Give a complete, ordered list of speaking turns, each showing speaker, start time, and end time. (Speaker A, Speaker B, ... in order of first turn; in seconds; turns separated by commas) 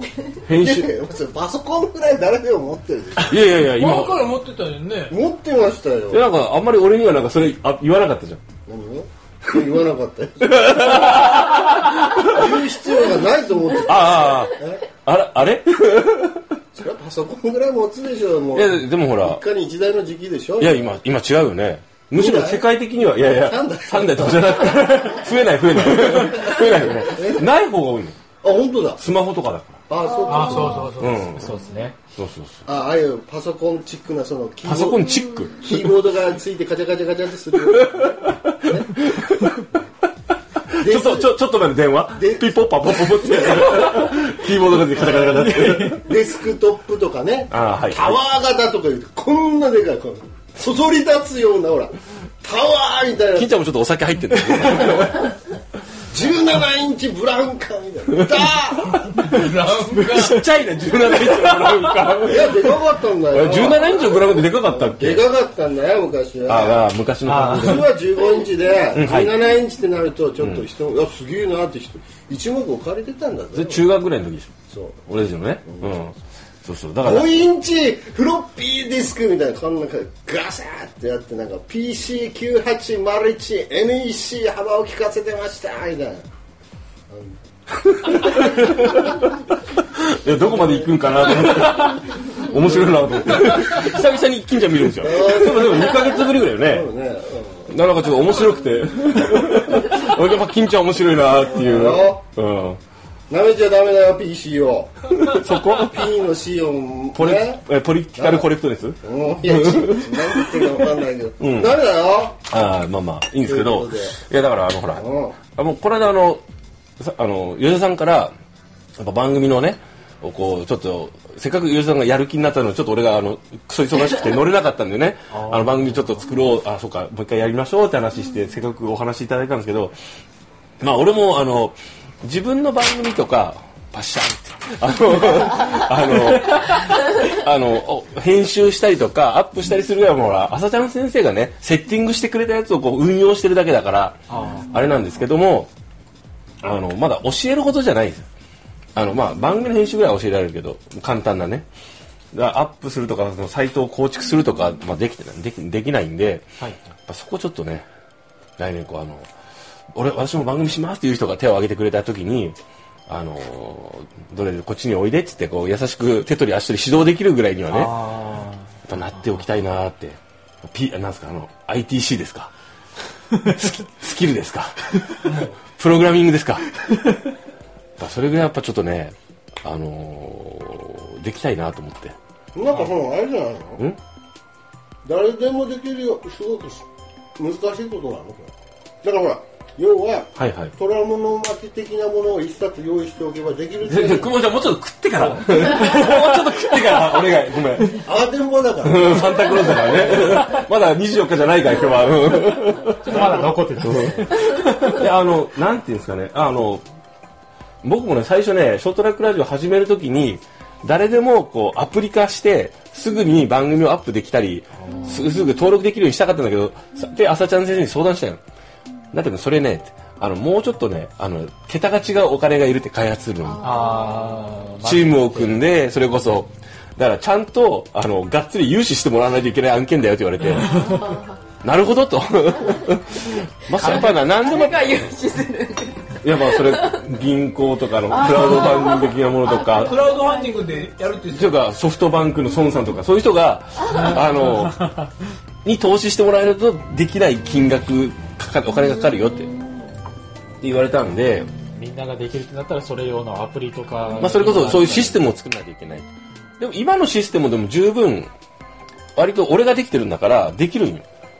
Speaker A: 0.4-0.9, Speaker B: 0.5-3.4, Speaker A: 3.2-4.3, Speaker C: 3.7-5.1, Speaker B: 5.1-6.2, Speaker A: 6.1-8.4, Speaker B: 8.7-11.4, Speaker A: 10.4-12.5, Speaker B: 12.2-14.8, Speaker A: 13.8-16.4, Speaker B: 16.8-20.9, Speaker A: 18.5-19.4, Speaker A: 20.6-28.2, Speaker B: 22.1-22.6, Speaker B: 23.3-25.1, Speaker B: 25.9-27.4, Speaker B: 28.4-29.0, Speaker A: 29.0-29.8, Speaker B: 29.9-30.9, Speaker D: 30.0-30.9, Speaker E: 30.3-31.9, Speaker C: 30.3-31.4, Speaker A: 31.0-31.5, Speaker A: 32.1-32.6, Speaker B: 32.6-38.9, Speaker A: 34.6-35.9, Speaker D: 35.1-35.5, Speaker A: 37.6-39.7, Speaker A: 40.7-46.0, Speaker B: 40.8-41.3, Speaker B: 42.1-44.3, Speaker B: 44.8-53.5, Speaker E: 45.4-46.0, Speaker A: 47.5-48.2, Speaker A: 53.3-55.3, Speaker B: 56.1-59.4, Speaker C: 59.2-60.4, Speaker A: 60.0-62.6, Speaker B: 62.2-66.8, Speaker A: 63.3-65.3, Speaker A: 66.5-67.9, Speaker E: 67.2-67.9, Speaker B: 67.5-73.8, Speaker A: 68.9-69.4, Speaker A: 70.4-70.7, Speaker A: 73.5-74.5, Speaker B: 74.7-75.0, Speaker A: 75.0-77.4, Speaker B: 75.7-75.9, Speaker B: 77.0-86.2, Speaker B: 87.1-87.4, Speaker A: 88.0-96.9, Speaker B: 90.3-91.6, Speaker B: 92.3-93.7, Speaker B: 95.0-97.7, Speaker A: 97.7-102.8, Speaker B: 101.4-102.2, Speaker B: 103.3-107.6, Speaker A: 105.2-106.0, Speaker A: 107.1-110.7, Speaker B: 108.1-108.5, Speaker B: 109.0-112.4, Speaker A: 111.4-111.8, Speaker A: 112.5-116.4, Speaker B: 113.5-114.2, Speaker B: 115.0-115.4, Speaker A: 117.0-118.3, Speaker A: 119.0-129.9, Speaker E: 125.3-126.2, Speaker A: 130.8-145.7, Speaker E: 144.3-144.8, Speaker A: 146.6-148.2, Speaker A: 148.9-151.7, Speaker A: 152.3-156.4, Speaker A: 157.1-157.8, Speaker A: 158.6-159.3, Speaker A: 159.9-162.6, Speaker A: 163.1-168.0, Speaker E: 167.7-169.2, Speaker A: 168.8-172.5, Speaker A: 173.4-176.7, Speaker C: 175.2-175.5, Speaker A: 178.0-182.2, Speaker B: 182.5-183.8, Speaker B: 185.0-186.8, Speaker B: 187.4-188.5, Speaker B: 189.0-194.3, Speaker A: 190.3-190.7, Speaker A: 193.8-198.0, Speaker B: 195.3-195.7, Speaker E: 195.7-196.4, Speaker B: 198.0-200.3, Speaker A: 198.8-206.8, Speaker E: 203.0-204.6, Speaker A: 207.8-218.4, Speaker E: 214.8-215.3, Speaker A: 219.1-224.0, Speaker D: 223.6-224.4, Speaker E: 223.6-225.6, Speaker A: 224.8-231.0, Speaker D: 230.6-231.4, Speaker A: 231.6-235.1, Speaker D: 233.8-237.1, Speaker A: 236.2-239.9, Speaker D: 238.1-240.9, Speaker C: 238.3-238.6, Speaker C: 239.8-241.6, Speaker A: 241.3-244.8, Speaker A: 245.6-249.5, Speaker D: 249.0-249.9, Speaker A: 250.6-251.5, Speaker E: 251.7-255.2, Speaker A: 254.2-256.1, Speaker A: 256.6-258.3, Speaker A: 259.1-261.0